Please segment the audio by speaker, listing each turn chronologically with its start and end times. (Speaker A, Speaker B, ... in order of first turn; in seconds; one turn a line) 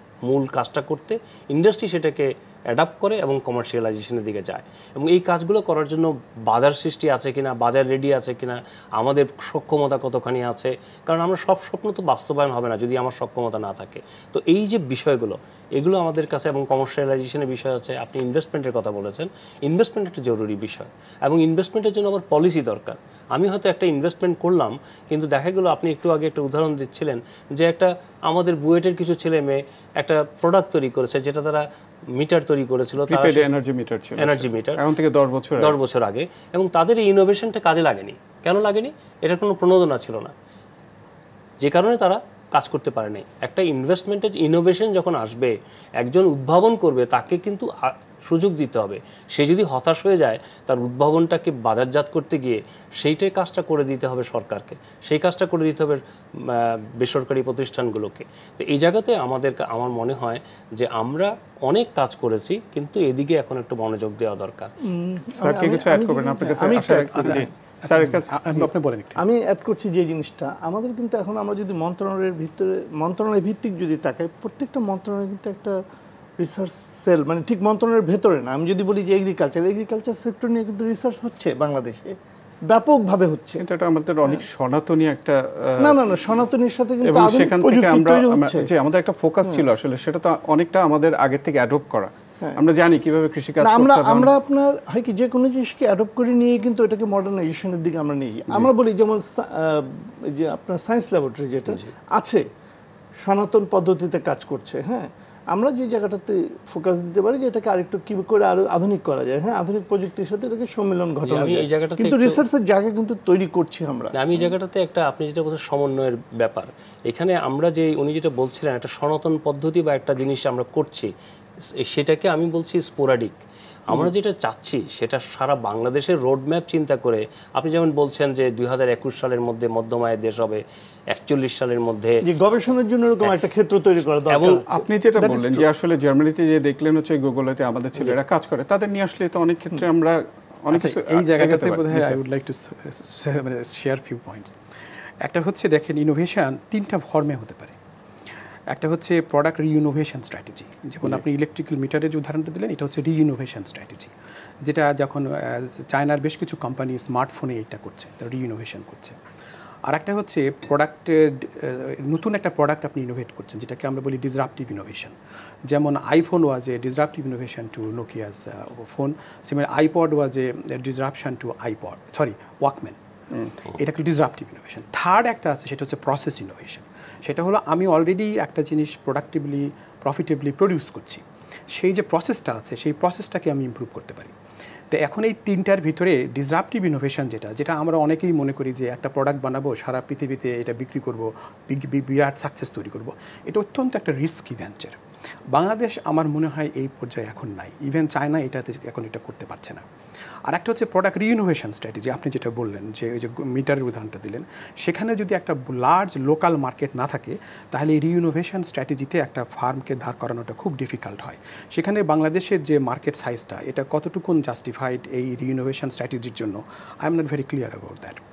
Speaker A: 0.2-33.5
Speaker B: 33.1-35.8
Speaker A: 34.2-34.8
Speaker A: 35.6-40.3
Speaker A: 41.6-64.7
Speaker C: 64.8-67.5
Speaker B: 65.4-68.7
Speaker D: 67.2-69.2
Speaker C: 69.2-75.8
Speaker C: 76.4-82.2
Speaker C: 82.7-83.6
Speaker B: 83.6-86.0
Speaker C: 85.8-88.7
Speaker B: 87.0-94.3
Speaker C: 93.6-102.4
Speaker C: 103.2-114.5
Speaker A: 111.2-112.4
Speaker A: 114.1-121.1
Speaker A: 121.6-132.2
Speaker C: 132.2-135.7
Speaker A: 134.3-134.7
Speaker B: 134.7-142.2
Speaker D: 140.7-144.6
Speaker D: 145.2-147.8
Speaker D: 148.7-154.1
Speaker D: 154.6-159.2
Speaker D: 159.8-165.1
Speaker D: 165.7-173.0
Speaker D: 173.7-184.3
Speaker D: 184.9-195.0
Speaker D: 195.5-199.8
Speaker D: 200.4-218.2